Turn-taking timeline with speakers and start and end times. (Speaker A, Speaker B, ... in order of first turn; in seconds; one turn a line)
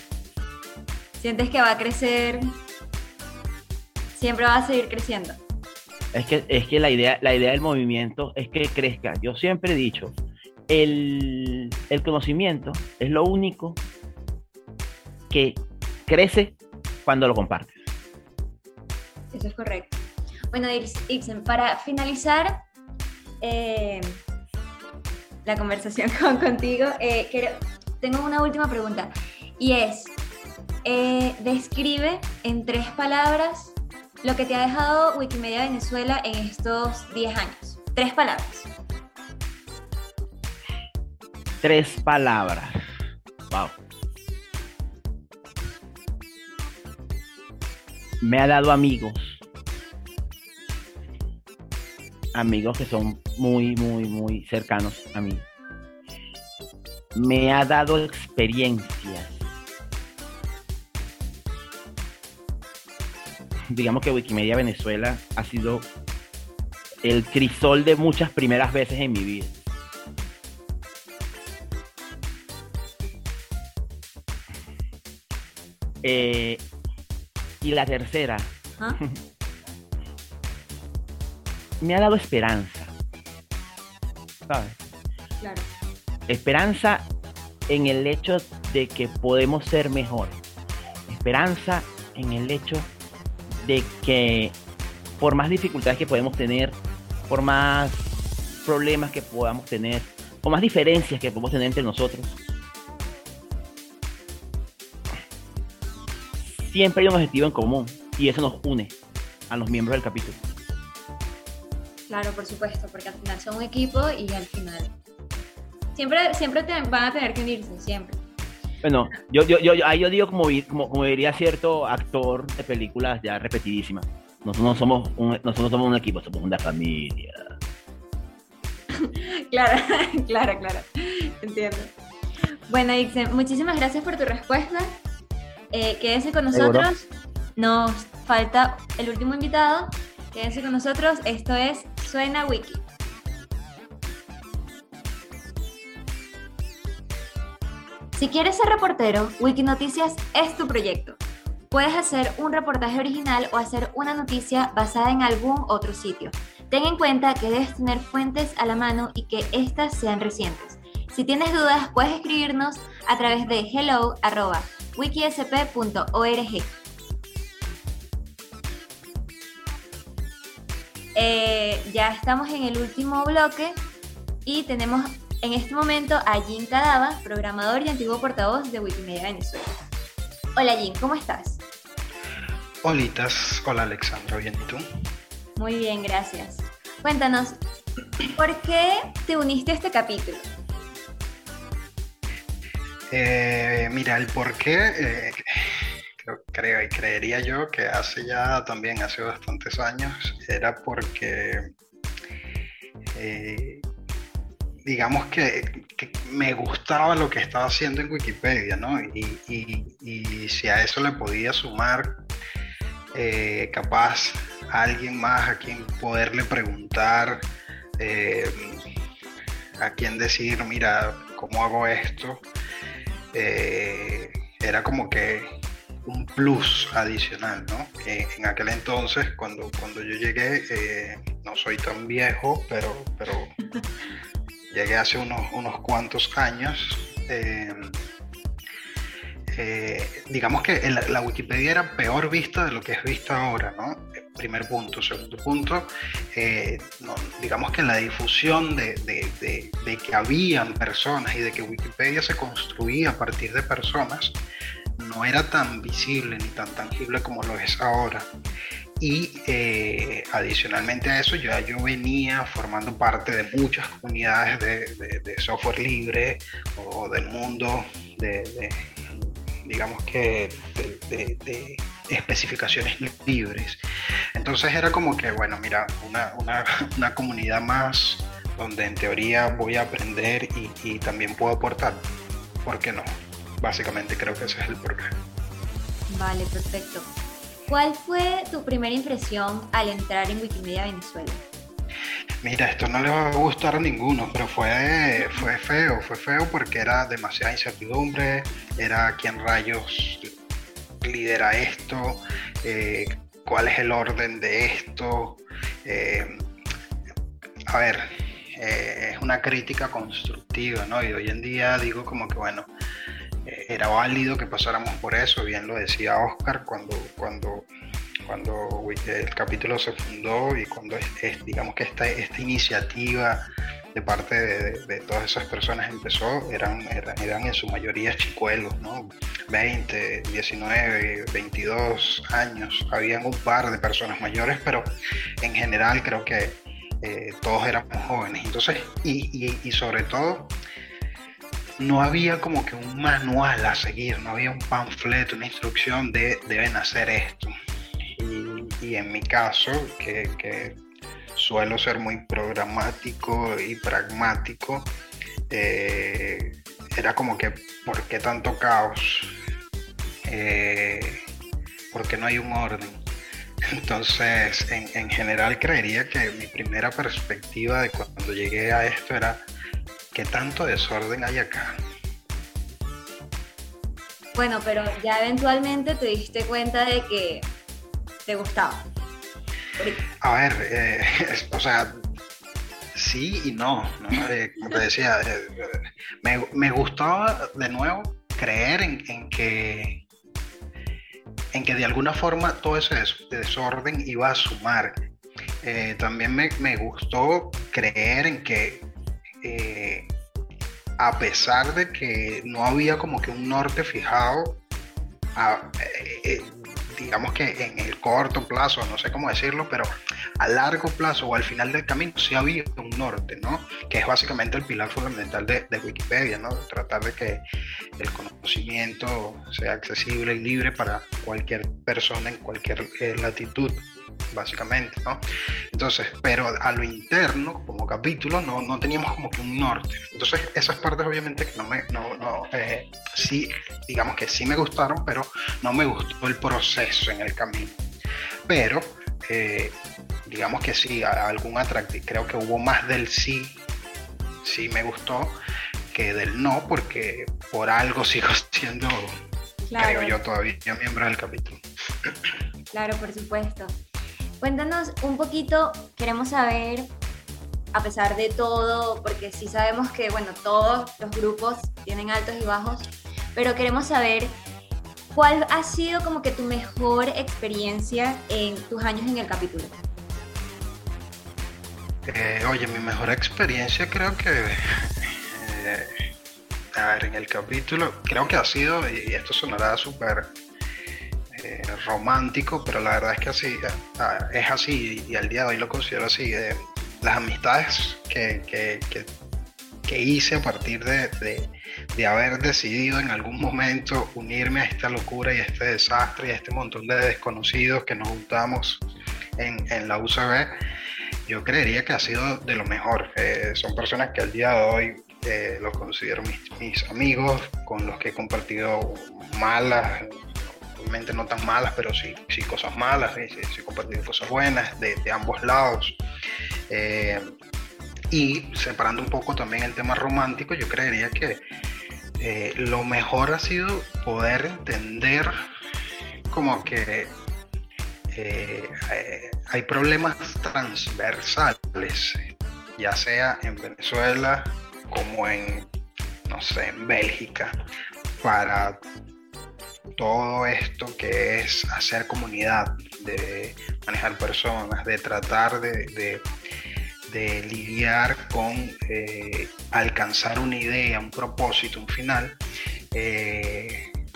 Speaker A: 1.2-2.5
Speaker A: 4.2-5.4
Speaker B: 6.1-10.1
Speaker B: 10.7-13.8
Speaker B: 15.3-17.7
Speaker A: 19.3-20.0
Speaker A: 20.5-22.6
Speaker A: 23.4-24.2
Speaker A: 25.4-30.1
Speaker A: 30.9-38.7
Speaker B: 41.6-42.8
Speaker B: 43.5-43.8
Speaker B: 48.2-49.4
Speaker B: 52.3-55.5
Speaker B: 57.1-59.5
Speaker B: 63.7-65.9
Speaker B: 67.0-69.5
Speaker B: 76.0-76.6
Speaker B: 77.6-79.2
Speaker B: 81.8-82.9
Speaker B: 84.5-84.8
Speaker A: 85.4-85.7
Speaker B: 86.3-87.1
Speaker B: 87.7-90.4
Speaker B: 91.1-92.9
Speaker B: 93.5-94.6
Speaker B: 95.2-98.1
Speaker B: 98.7-102.4
Speaker B: 106.4-109.0
Speaker B: 109.5-110.4
Speaker A: 112.1-114.9
Speaker A: 116.0-118.2
Speaker B: 118.8-127.5
Speaker A: 129.0-131.9
Speaker A: 132.7-135.0
Speaker A: 135.7-142.8
Speaker B: 136.5-136.9
Speaker A: 148.1-151.2
Speaker A: 151.7-166.8
Speaker A: 171.2-173.8
Speaker A: 174.4-179.7
Speaker A: 180.6-181.6
Speaker C: 182.8-184.8
Speaker A: 185.6-187.6
Speaker A: 188.3-190.5
Speaker C: 193.1-195.4
Speaker C: 196.2-201.7
Speaker C: 203.1-203.8
Speaker C: 204.8-212.2
Speaker C: 213.1-217.5
Speaker C: 218.0-218.8
Speaker C: 219.8-222.5
Speaker C: 223.3-225.5
Speaker C: 226.1-233.5
Speaker C: 234.7-238.0
Speaker C: 239.5-254.4
Speaker C: 255.0-258.3
Speaker C: 259.0-273.8
Speaker C: 274.4-282.1
Speaker C: 282.6-283.1
Speaker C: 283.6-285.2
Speaker A: 286.1-287.1
Speaker A: 287.7-291.4
Speaker C: 292.4-300.3
Speaker C: 301.0-306.5
Speaker C: 307.7-312.7
Speaker C: 313.4-317.7
Speaker C: 318.3-323.4
Speaker C: 323.9-340.5
Speaker C: 341.8-347.5
Speaker C: 348.2-350.8
Speaker C: 351.4-354.9
Speaker C: 355.5-359.3
Speaker C: 360.2-361.2
Speaker C: 361.9-363.0
Speaker C: 363.7-369.4
Speaker C: 370.1-371.8
Speaker A: 374.4-377.5
Speaker A: 378.3-378.9
Speaker A: 379.8-380.0
Speaker C: 380.2-382.0
Speaker C: 382.9-390.0
Speaker C: 391.5-395.0
Speaker C: 395.6-398.9
Speaker C: 399.4-400.1
Speaker C: 401.0-404.6
Speaker C: 405.4-417.4
Speaker C: 418.0-437.8
Speaker C: 438.5-443.6
Speaker C: 444.4-445.4
Speaker C: 445.9-449.1
Speaker A: 449.7-450.2
Speaker C: 449.8-451.6
Speaker A: 452.7-453.8
Speaker A: 454.4-456.9
Speaker A: 457.7-464.4
Speaker A: 465.1-469.8
Speaker C: 472.1-475.9
Speaker C: 476.8-480.3
Speaker C: 481.3-489.1
Speaker C: 489.9-498.9
Speaker C: 499.4-500.6
Speaker C: 501.3-516.0
Speaker C: 516.7-517.3
Speaker C: 518.1-521.4
Speaker C: 522.2-525.3
Speaker C: 526.3-527.2
Speaker C: 528.1-535.7
Speaker C: 536.3-537.5
Speaker C: 538.2-538.8
Speaker C: 540.0-546.3
Speaker C: 547.1-552.4
Speaker C: 552.9-553.8